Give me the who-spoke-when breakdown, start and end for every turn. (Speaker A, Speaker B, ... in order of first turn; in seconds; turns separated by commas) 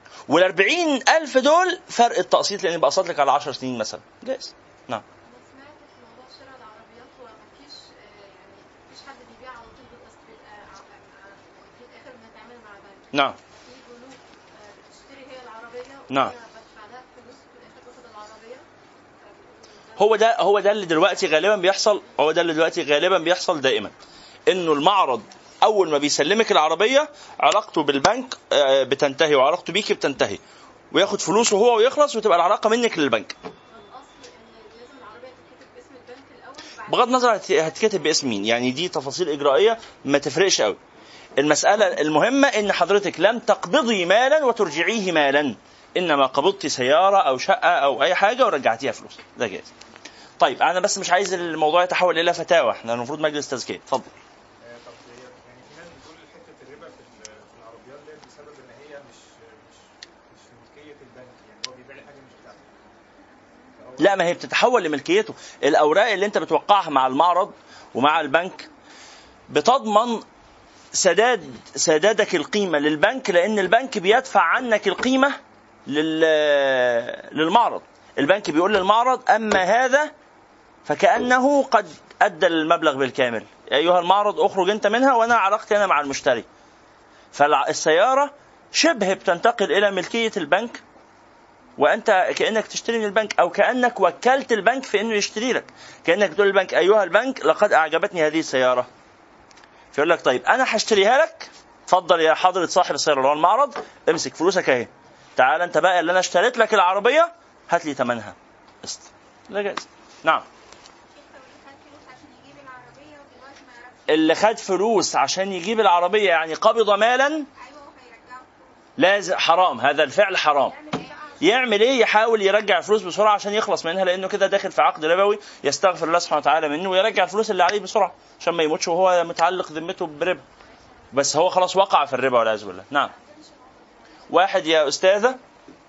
Speaker A: 0.3-5.0, Speaker B: 5.2-18.7, Speaker A: 16.1-16.3, Speaker B: 19.2-20.4, Speaker A: 20.0-23.9, Speaker A: 24.5-30.4, Speaker A: 30.9-33.4, Speaker B: 33.7-38.7, Speaker A: 36.9-40.8, Speaker A: 41.4-49.7, Speaker A: 50.4-54.1, Speaker C: 54.6-62.8, Speaker C: 63.8-64.2, Speaker A: 64.0-68.7, Speaker A: 69.5-70.2, Speaker A: 70.9-80.1, Speaker A: 80.8-86.5, Speaker A: 87.3-90.8, Speaker A: 91.8-98.9, Speaker A: 99.9-110.5, Speaker B: 111.1-114.3, Speaker A: 114.1-117.5, Speaker B: 117.5-118.8, Speaker A: 119.0-120.7, Speaker B: 120.6-121.6, Speaker A: 121.4-130.4, Speaker A: 131.1-133.1, Speaker B: 133.0-134.6, Speaker A: 134.3-135.4